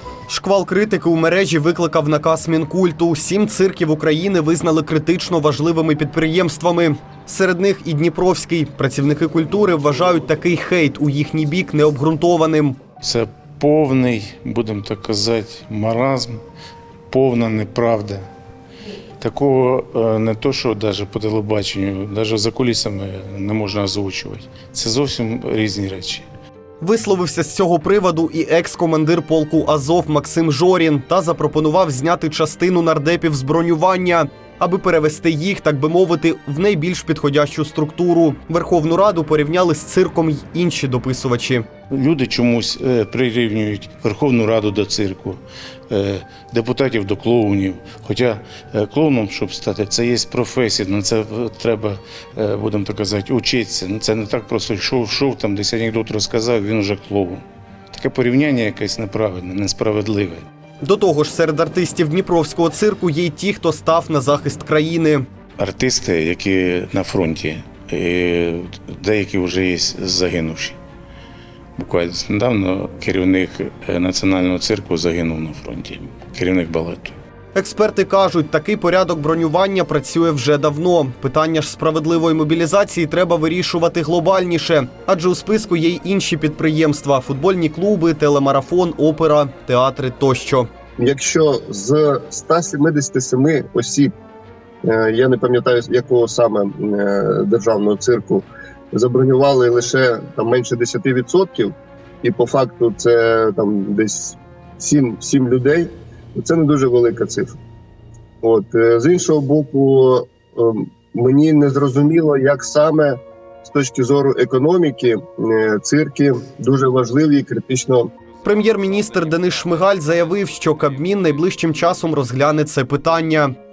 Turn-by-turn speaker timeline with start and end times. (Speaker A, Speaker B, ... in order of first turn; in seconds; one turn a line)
Speaker A: 0.3-12.8
Speaker B: 13.0-16.4
Speaker B: 17.1-18.3
Speaker B: 19.2-26.3
Speaker A: 26.8-41.6
Speaker B: 41.9-60.4
Speaker A: 60.8-65.3
Speaker B: 65.6-70.8
Speaker B: 71.8-77.2
Speaker A: 77.5-90.7
Speaker C: 91.0-94.1
Speaker C: 94.8-107.6
Speaker C: 108.4-118.1
Speaker A: 118.4-123.5